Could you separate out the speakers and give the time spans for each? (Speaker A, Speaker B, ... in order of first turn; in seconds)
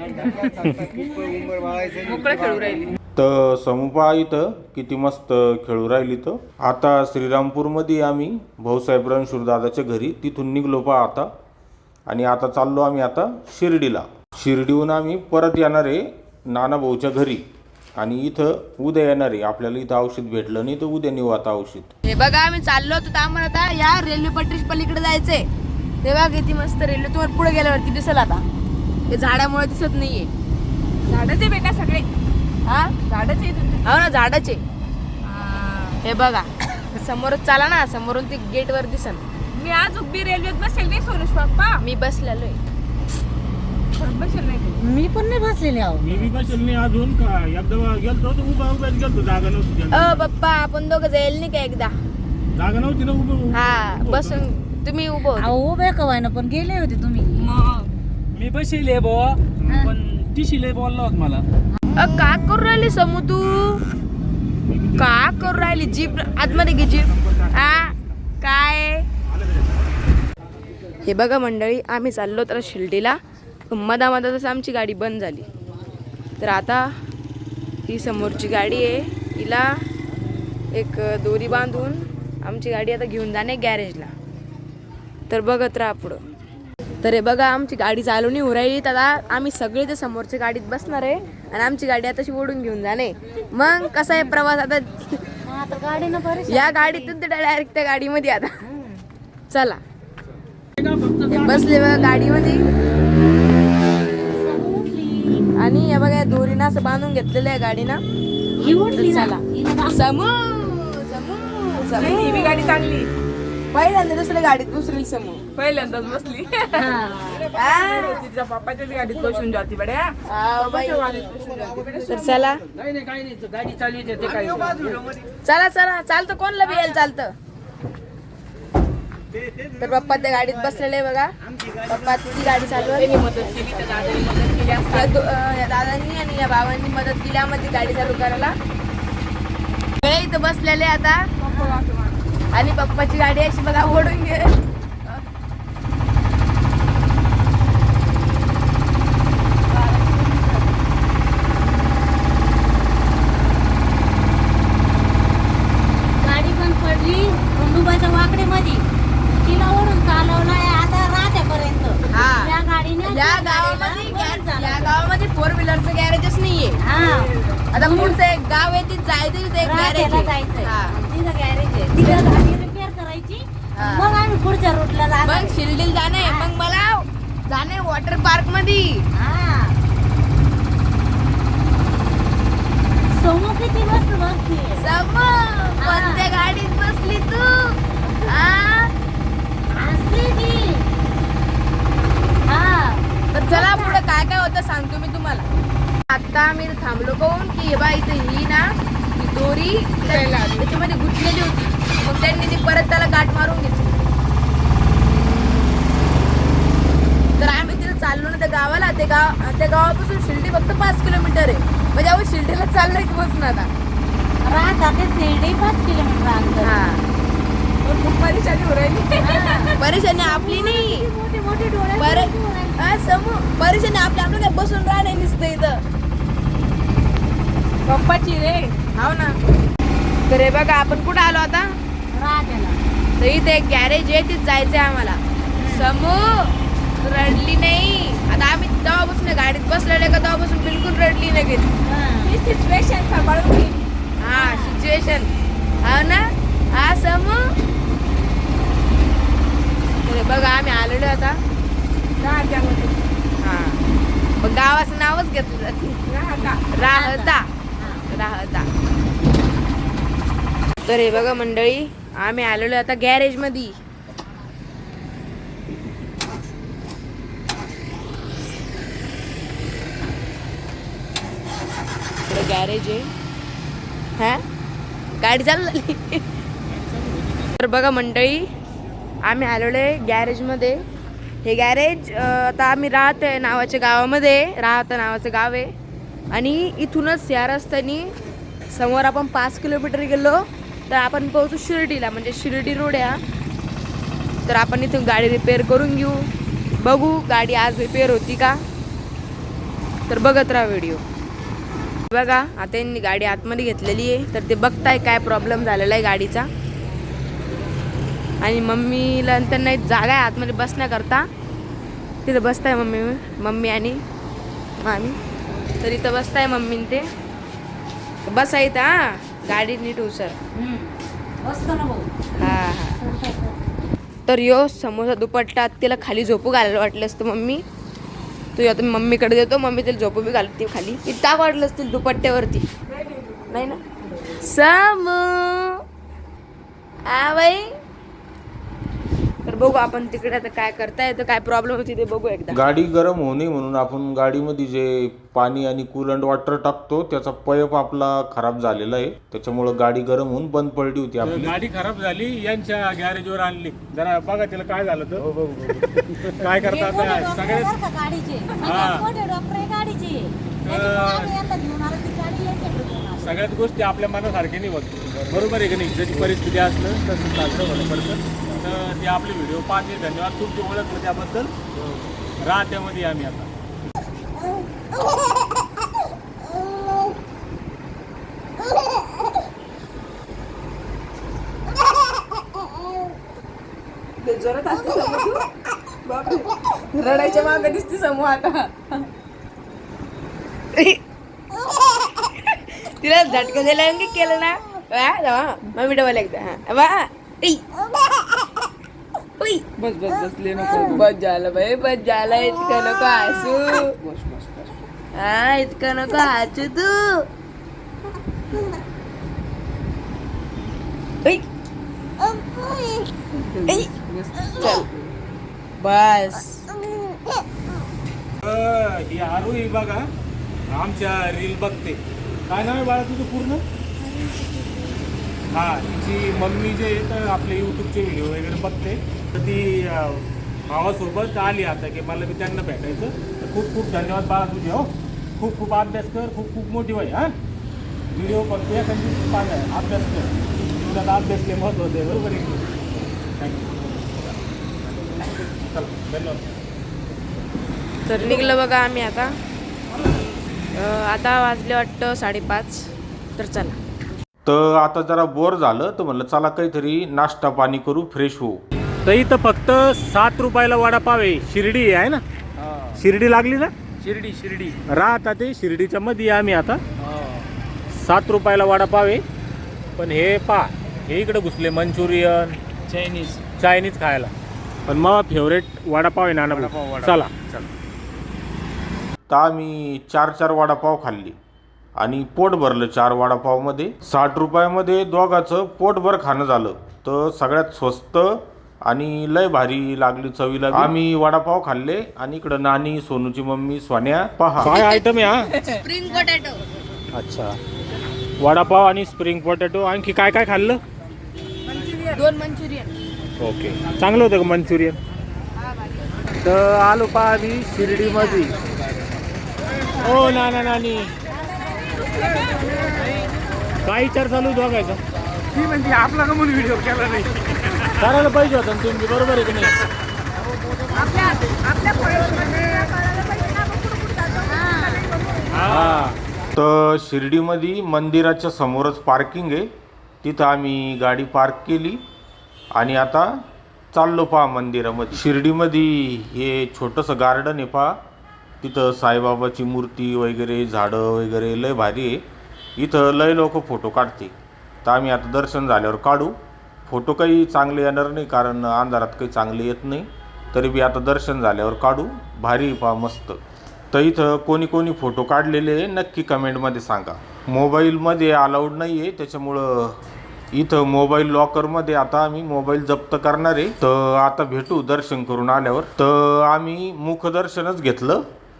Speaker A: 0.2-0.5, 44.8-46.3, 55.3-57.5, 59.7-59.9, 95.4-97.1, 98.7-99.0, 104.0-105.5, 108.6-110.0, 112.0-112.8, 116.7-117.5, 156.2-158.8, 159.4-164.9, 166.8-168.2, 169.6-175.6, 176.2-176.5, 179.2-179.8, 183.1-184.8, 185.8-186.4, 188.0-188.3, 189.7-190.8, 192.5-194.0, 214.4-216.7, 219.2-223.0, 232.1-232.8, 235.6-235.9, 241.8-242.3, 244.3-244.7, 256.9-258.0, 320.5-323.5, 356.6-363.4, 424.2-424.7, 524.5-525.1
Speaker B: 0.6-0.9, 46.0-50.3, 52.5-54.4, 64.7-65.3, 66.2-67.9, 69.3-69.8, 351.2-357.7, 358.6-359.1, 360.6-361.3, 363.2-371.5, 372.4-373.5, 418.4-420.1, 420.7-423.6, 425.5-437.3, 438.1-442.7, 443.4-444.4, 444.9-446.5, 459.0-462.2, 462.9-463.7, 464.9-466.8, 467.9-469.2, 470.0-472.6, 473.6-474.3, 474.9-477.3, 494.6-495.8, 497.1-497.6, 498.4-500.8, 503.4-505.0, 506.4-508.5, 510.0-511.1, 513.8-515.0, 517.8-519.7, 525.5-526.2
Speaker C: 2.0-2.9, 31.1-32.1, 33.0-33.8, 35.2-36.0, 39.5-41.8, 43.9-44.8, 111.9-113.1, 115.7-116.8, 117.6-120.2, 120.9-122.0, 124.3-124.9, 132.8-135.1, 141.4-142.2, 149.7-150.6, 200.1-200.7, 217.8-219.7, 227.8-228.8, 242.2-243.8, 252.2-253.0, 256.1-256.6, 333.0-333.4, 384.4-384.8
Speaker D: 3.1-11.3, 12.1-17.4, 17.9-21.9, 342.5-351.5, 454.4-458.6, 479.3-481.4, 482.0-494.8, 526.5-529.7, 530.2-532.0, 532.7-533.3, 533.9-537.9, 538.6-542.2, 542.8-546.3, 546.9-553.4, 553.9-560.0, 560.5-568.2
Speaker E: 22.0-25.5, 26.0-28.4, 29.1-30.3, 32.7-33.0, 33.8-34.6, 36.0-39.2, 41.8-42.6, 49.9-51.9, 53.5-55.5, 61.9-63.8, 64.9-69.0, 71.0-73.2, 73.7-75.5, 76.4-76.8, 77.9-79.7, 80.7-84.1, 85.3-86.2, 87.0-95.2, 96.5-98.5, 99.5-99.8, 101.3-102.7, 105.6-108.0, 108.8-112.7, 113.7-116.3, 117.5-118.2, 120.3-122.6, 125.4-127.3, 129.8-131.3, 131.8-133.2, 134.9-138.5, 140.0-141.7, 142.5-144.6, 162.1-162.5, 163.0-166.8, 167.7-170.9, 172.0-172.3, 173.8-174.1, 175.2-179.0, 184.8-188.9, 193.3-195.4, 196.1-198.6, 199.2-204.1, 207.4-213.7, 216.6-217.0, 219.8-221.0, 222.0-225.8, 228.8-229.3, 230.3-231.7, 233.2-241.7, 244.2-245.3, 245.8-247.4, 250.0-251.4, 253.4-253.8, 254.4-256.0, 256.7-257.5, 258.1-258.7, 260.9-263.7, 272.3-273.1, 275.2-276.2, 277.6-278.4, 279.2-280.8, 281.4-285.7, 286.3-288.1, 288.7-290.4, 290.9-293.2, 294.4-296.2, 296.8-298.6, 300.1-301.0, 302.1-306.5, 308.4-311.2, 312.2-314.0, 314.8-315.2, 315.8-317.0, 318.3-320.4, 322.4-323.0, 324.3-327.6, 328.6-332.7, 333.5-333.8, 334.4-335.8, 337.1-337.6, 339.4-342.6, 384.2-385.4, 386.1-388.7, 390.7-391.0, 392.2-397.6, 399.4-399.6, 400.7-403.9, 405.1-407.2, 414.4-414.9, 415.8-416.7, 448.1-449.3, 450.7-453.8, 494.7-496.6, 501.7-502.9, 512.2-513.0, 520.9-525.9
Speaker F: 58.3-61.4, 123.2-124.8, 399.8-401.0, 404.0-404.7, 413.5-415.1, 464.0-464.8, 467.1-467.4, 472.9-473.4, 476.5-477.7, 515.6-517.6